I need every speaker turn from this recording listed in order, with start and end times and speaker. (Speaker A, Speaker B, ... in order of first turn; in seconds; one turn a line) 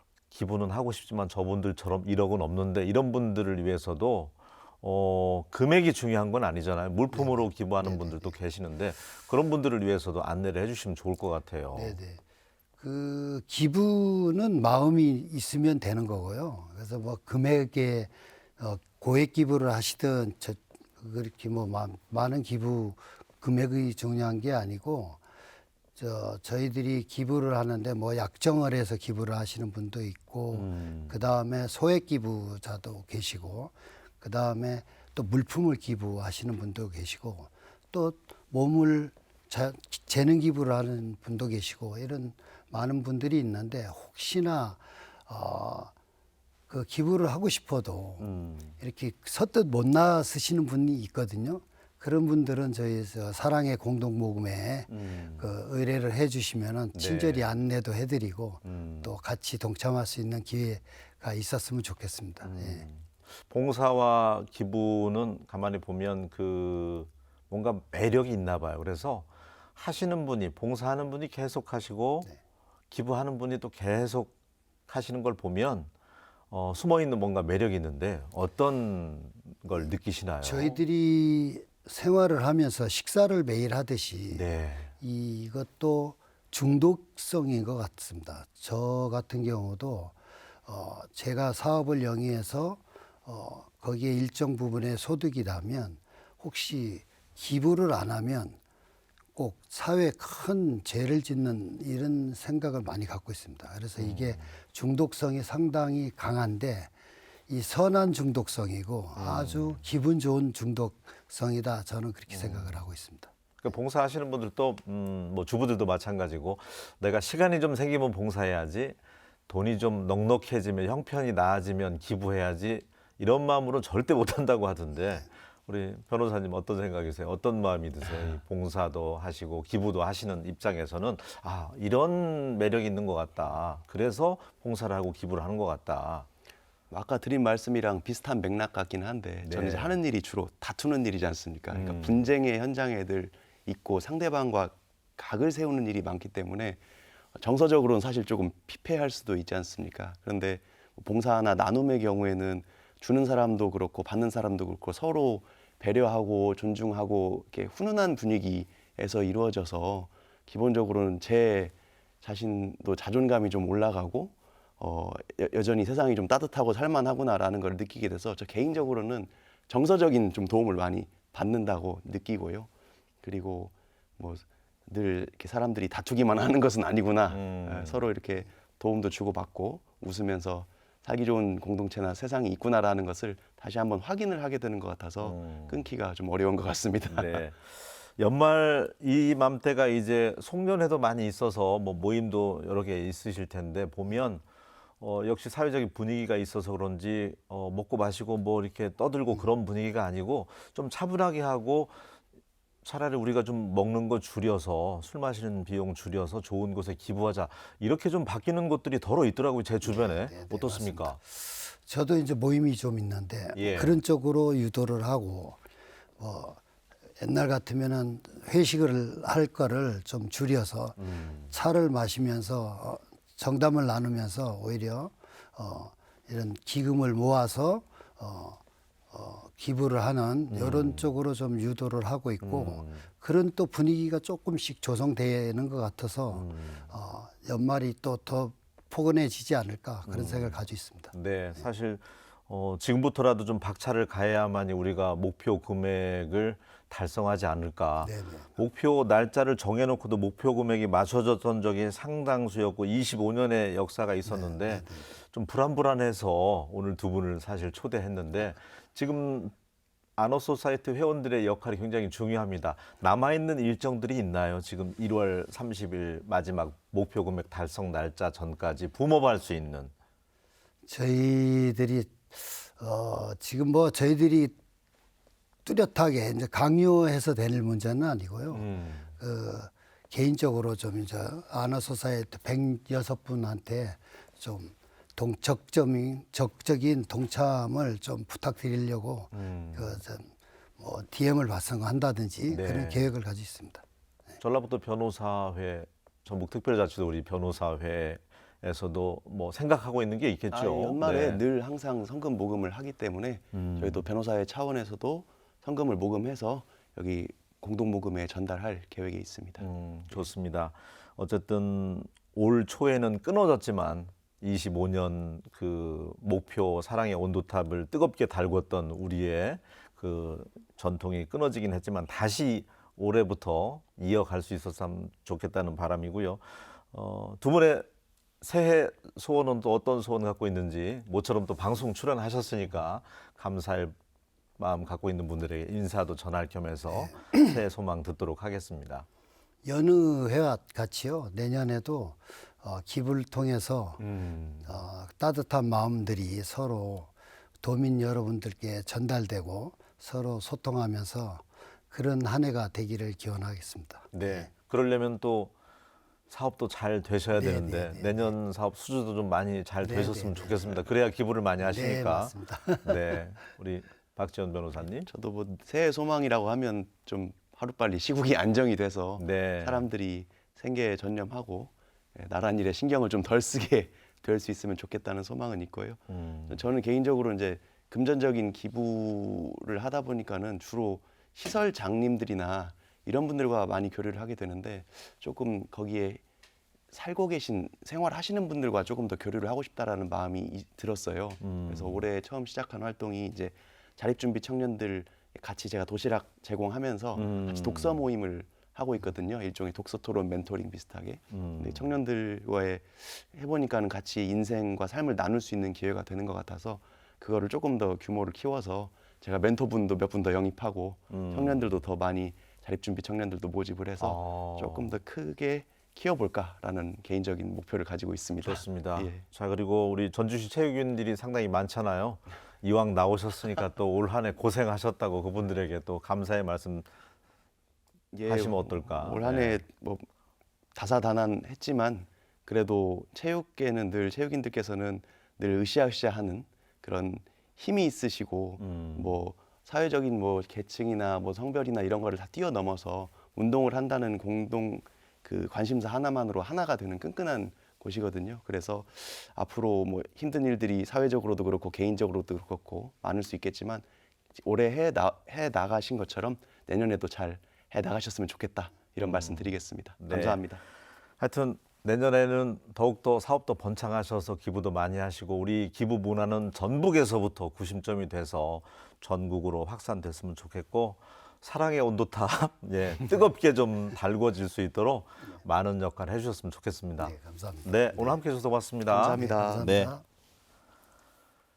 Speaker A: 0.3-12.0
Speaker B: 7.1-8.3
Speaker B: 11.7-12.2
Speaker B: 12.8-25.2
Speaker B: 26.0-45.9
Speaker A: 30.5-31.2
Speaker B: 46.7-48.2
Speaker A: 48.2-48.8
Speaker B: 48.8-62.8
Speaker A: 54.9-55.5
Speaker A: 56.9-57.5
Speaker A: 58.6-59.1
Speaker A: 62.4-72.3
Speaker A: 72.9-74.3
Speaker A: 74.9-75.9
Speaker A: 76.5-80.8
Speaker B: 80.4-84.4
Speaker A: 84.3-84.9
Speaker B: 85.0-98.6
Speaker B: 99.3-106.9
Speaker A: 104.0-104.5
Speaker B: 107.5-113.3
Speaker A: 109.2-109.8
Speaker A: 112.3-112.8
Speaker A: 113.6-136.3
Speaker C: 136.9-146.8
Speaker A: 139.4-140.0
Speaker A: 141.7-142.2
Speaker C: 147.3-172.7
Speaker C: 173.2-187.4
Speaker A: 177.3-178.0
Speaker A: 185.2-185.8
Speaker A: 187.1-194.4
Speaker A: 195.0-202.0
Speaker A: 202.8-211.2
Speaker B: 209.8-215.6
Speaker A: 213.5-214.0
Speaker B: 216.2-216.6
Speaker B: 217.2-228.6
Speaker A: 221.0-221.5
Speaker B: 229.1-241.1
Speaker A: 230.5-231.1
Speaker A: 232.4-233.1
Speaker A: 236.3-236.9
Speaker A: 240.1-240.6
Speaker A: 241.1-259.5
Speaker B: 248.0-248.5
Speaker B: 254.2-255.1
Speaker A: 260.2-269.9
Speaker B: 270.9-274.6
Speaker B: 275.6-293.8
Speaker A: 278.5-279.1
Speaker A: 289.3-290.0
Speaker A: 292.5-293.1
Speaker A: 294.4-301.4
Speaker C: 300.5-309.7
Speaker A: 303.5-304.1
Speaker A: 309.6-327.9
Speaker A: 328.4-333.9
Speaker A: 334.6-339.1
Speaker B: 336.9-337.5
Speaker B: 339.6-344.0
Speaker A: 344.0-344.8
Speaker B: 344.6-354.5
Speaker A: 354.1-355.5
Speaker A: 356.3-365.1
Speaker B: 357.4-358.3
Speaker B: 359.8-360.8
Speaker B: 361.6-363.2
Speaker C: 365.1-386.2
Speaker A: 369.2-369.9
Speaker A: 376.1-376.6
Speaker C: 386.9-419.2
Speaker A: 391.4-392.0
Speaker A: 397.1-398.0
Speaker A: 401.3-401.9
Speaker A: 411.1-411.8
Speaker A: 414.0-415.0
Speaker A: 418.4-426.9
Speaker C: 428.1-430.1
Speaker A: 428.3-429.6
Speaker C: 430.7-453.8
Speaker A: 438.6-439.1
Speaker C: 454.4-460.6
Speaker A: 459.0-460.4
Speaker A: 461.2-479.9
Speaker B: 477.0-478.2
Speaker C: 478.9-479.8
Speaker B: 479.1-480.0